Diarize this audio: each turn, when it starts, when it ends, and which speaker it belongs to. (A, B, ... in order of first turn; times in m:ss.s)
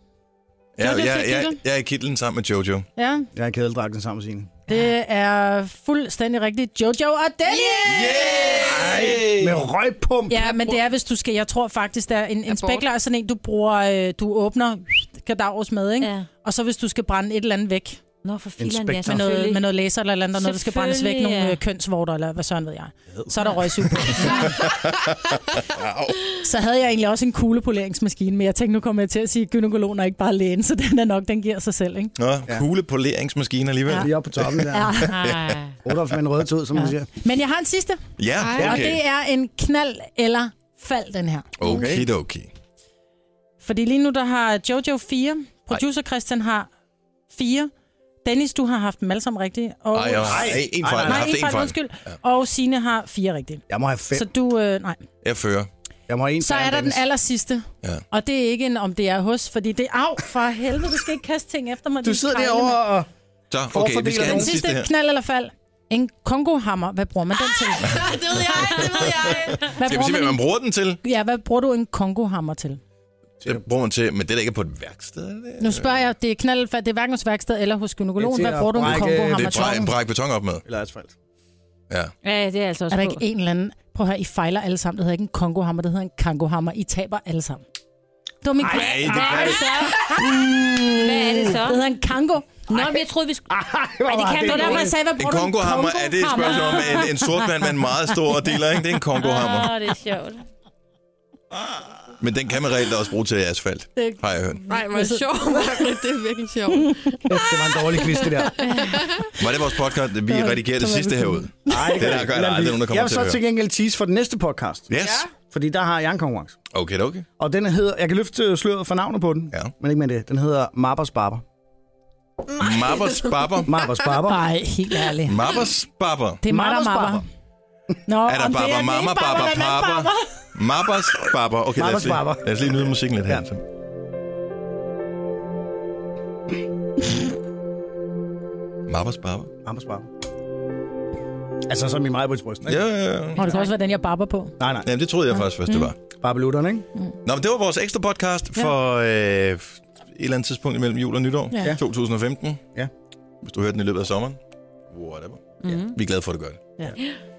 0:00.8-0:02.8 A
0:00.8-0:01.6 B
0:03.0-0:03.3 C
0:03.3-0:04.5 D
0:04.7-0:08.6 C
0:07.7-0:09.6 A
0:08.6-0:10.4 D
0:10.3-0:18.0 C
0:12.5-0:12.8 B
0:16.0-0:16.3 E
0:18.2-0:19.6 E
0:18.6-0:19.3 D
0:19.0-0:24.6 C
0:20.3-0:21.6 E
0:24.2-0:26.2 A
0:26.3-0:32.1 C
0:32.2-0:35.6 A
0:34.0-0:35.0 D
0:34.7-0:35.2 C
0:35.1-0:35.8 E
0:35.8-0:37.1 D
0:36.7-0:41.8 C
0:38.2-0:39.0 A
0:38.4-0:38.8 B
0:38.6-0:38.9 D
0:41.6-0:42.5 A
0:41.6-0:42.1 D
0:43.6-0:46.7 C
0:47.3-0:47.7 C
0:48.2-0:55.0 C
0:49.9-0:52.1 A
0:50.2-0:51.3 D
0:53.7-0:54.3 D
0:55.2-0:55.7 A
0:56.1-0:57.0 D
0:56.4-1:02.8 C
1:02.0-1:03.1 D
1:03.5-1:04.9 A
1:03.7-1:04.6 D
1:04.2-1:08.0 C
1:07.7-1:09.7 B
1:08.6-1:11.0 A
1:08.9-1:10.4 C
1:11.0-1:12.8 C
1:13.4-1:16.1 A
1:15.6-1:19.9 C
1:18.2-1:19.9 D
1:19.3-1:20.6 A
1:20.6-1:21.1 D
1:22.2-1:23.2 E
1:22.9-1:27.6 C
1:28.4-1:32.6 C
1:28.6-1:29.4 D
1:28.7-1:30.0 E
1:28.7-1:29.7 A
1:30.3-1:30.7 D
1:30.9-1:31.8 E
1:32.7-1:33.4 E
1:32.7-1:33.0 D
1:33.5-1:35.0 D
1:34.1-1:34.9 E
1:34.1-1:37.5 C
1:35.1-1:39.7 A
1:36.4-1:37.1 E
1:39.2-1:40.4 E
1:42.2-1:44.6 A
1:44.0-1:45.8 C
1:44.7-1:47.4 B
1:47.3-1:48.6 D
1:48.4-1:49.5 C
1:48.6-1:48.9 E
1:48.8-1:49.3 B
1:49.3-1:53.4 A
1:50.3-1:52.0 C
1:51.7-1:56.6 D
1:54.9-1:55.3 A
1:56.7-1:57.2 A
1:57.4-2:01.4 D
2:02.6-2:03.8 A
2:03.6-2:04.4 D
2:04.2-2:05.6 C
2:05.2-2:06.4 A
2:06.4-2:07.2 C
2:06.5-2:07.2 D
2:08.1-2:10.6 C
2:08.2-2:13.6 A
2:11.7-2:12.5 D
2:18.9-2:19.5 A
2:19.6-2:20.1 D
2:21.7-2:22.8 D
2:22.6-2:23.5 A
2:23.4-2:24.6 C
2:23.4-2:23.7 E
2:24.6-2:24.9 D
2:24.8-2:26.0 A
2:26.1-2:26.8 D
2:27.2-2:32.6 A
2:31.5-2:31.8 C
2:33.4-2:34.4 A
2:34.9-2:36.6 A
2:35.6-2:35.9 E